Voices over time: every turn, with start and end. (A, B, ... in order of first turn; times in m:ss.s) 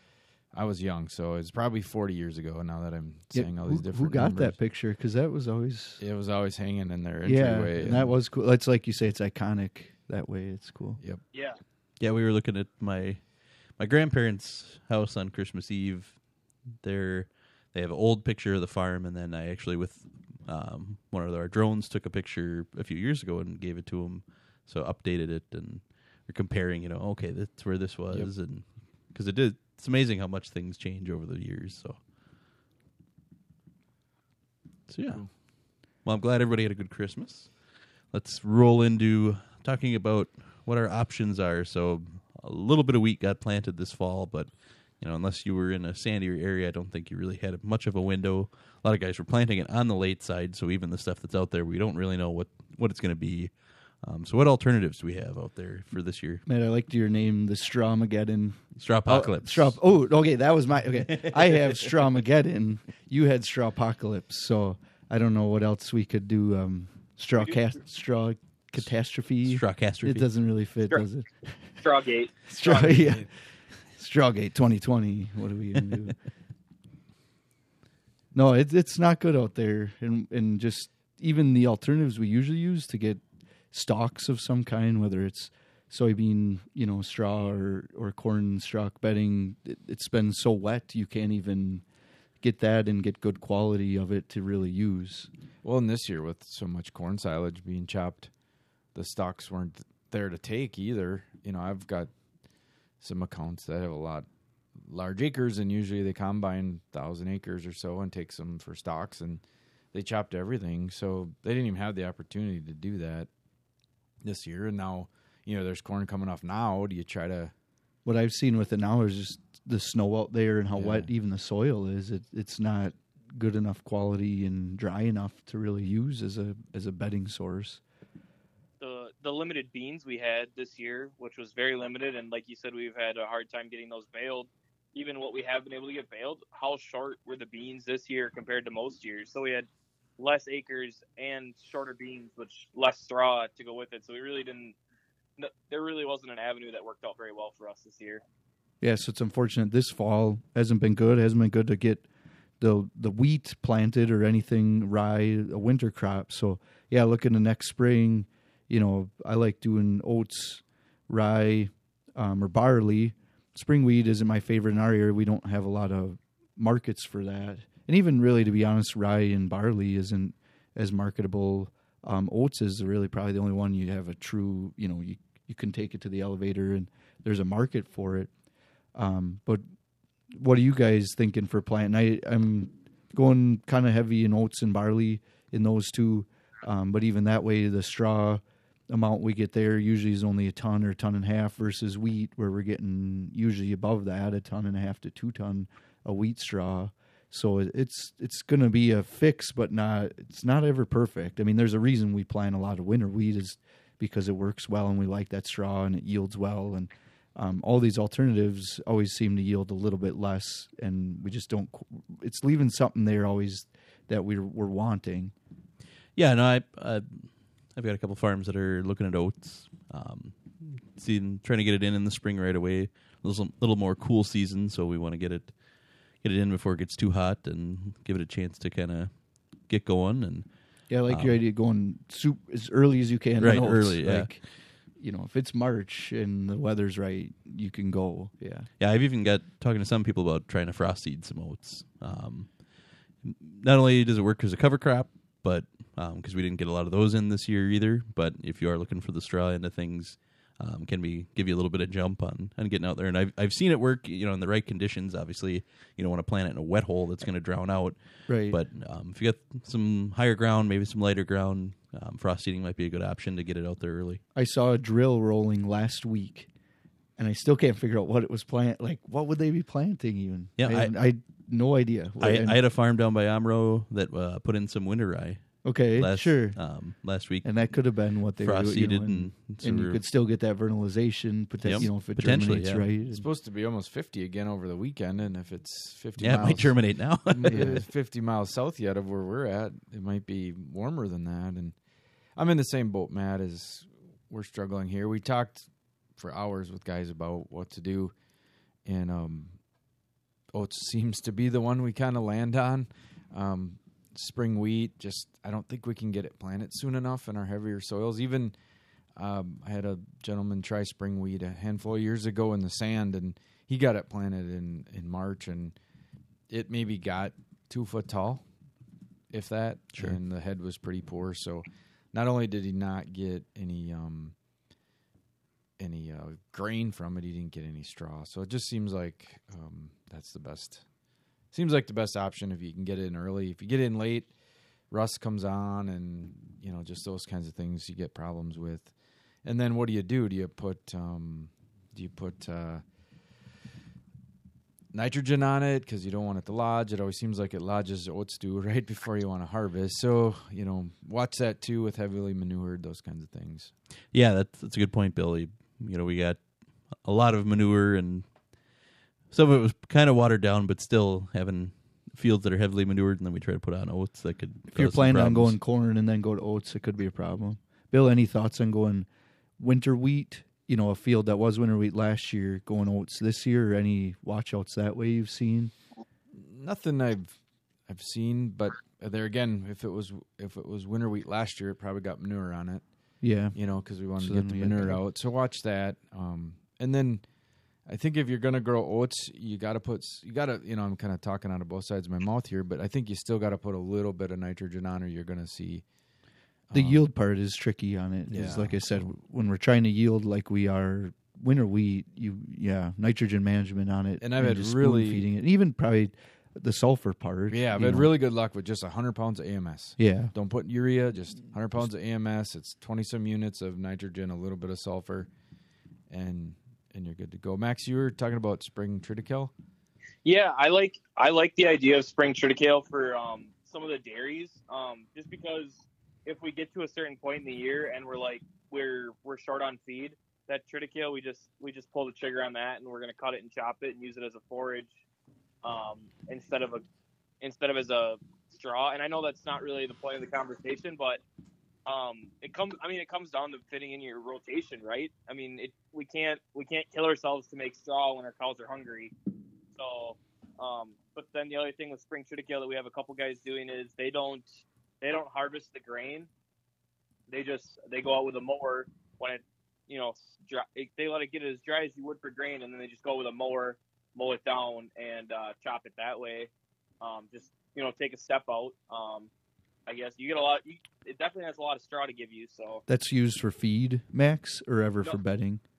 0:00.5-0:04.6 A
0:03.3-0:06.0 B
0:06.0-0:08.1 A
0:07.2-0:11.0 B
0:11.3-0:11.6 C
0:12.0-0:32.0 D
0:34.9-0:37.6 D
0:38.1-0:56.4 D
0:56.4-1:11.5 B
0:58.8-0:59.8 D
1:09.4-1:10.3 D
1:11.6-1:13.2 C
1:12.5-1:13.3 B
1:12.7-1:13.3 A
1:13.8-1:16.2 B
1:18.3-1:31.8 B
1:32.4-1:35.3 B
1:35.6-1:38.3 A
1:38.9-1:42.3 A
1:42.9-1:53.3 A
1:54.2-1:57.5 A
1:58.0-2:07.8 B
2:00.7-2:01.1 A
2:08.8-2:19.7 C
2:20.2-2:24.8 C
2:25.4-2:28.2 C
2:28.8-2:32.0 B
2:32.6-2:58.3 B
2:58.9-2:59.6 B
3:00.3-3:35.3 B
3:36.2-3:45.6 D
3:46.1-3:50.5 D
3:50.9-3:58.7 B
3:51.1-3:51.4 D
3:53.4-3:54.3 D
3:58.8-4:24.2 D
4:18.3-4:18.6 B
4:24.3-4:26.5 B
4:27.2-4:32.6 B
4:30.6-4:30.9 D
4:32.2-4:40.0 D
4:35.6-4:43.2 B
4:41.6-4:42.9 D
4:43.1-4:51.8 A
4:46.2-4:47.8 D
4:46.2-4:46.7 B
4:47.4-4:47.8 B
4:52.3-4:58.1 A
4:58.8-4:59.6 A
5:00.5-5:08.6 A
5:09.1-5:15.8 A
5:16.5-5:18.5 A
5:19.3-5:24.4 A
5:19.9-5:20.2 D
5:25.8-5:30.9 A
5:31.5-5:34.3 A
5:34.9-5:42.9 A
5:44.9-5:53.7 A
5:54.1-6:05.6 D
6:04.7-6:09.1 B
6:09.6-6:15.7 B
6:16.3-6:35.9 A
6:23.2-6:25.0 B
6:36.7-6:37.0 A
6:36.7-6:48.1 B
6:38.3-6:38.8 A
6:44.2-6:45.2 A
6:47.5-6:55.3 A
6:50.0-6:50.3 B
6:56.1-6:59.5 A
7:00.2-7:14.9 C
7:15.6-7:16.8 C
7:17.4-7:21.2 C
7:21.8-7:29.1 C
7:29.8-7:34.5 C
7:35.0-7:36.3 C
7:37.3-7:49.3 C
7:49.8-7:52.8 C
7:52.9-7:55.6 B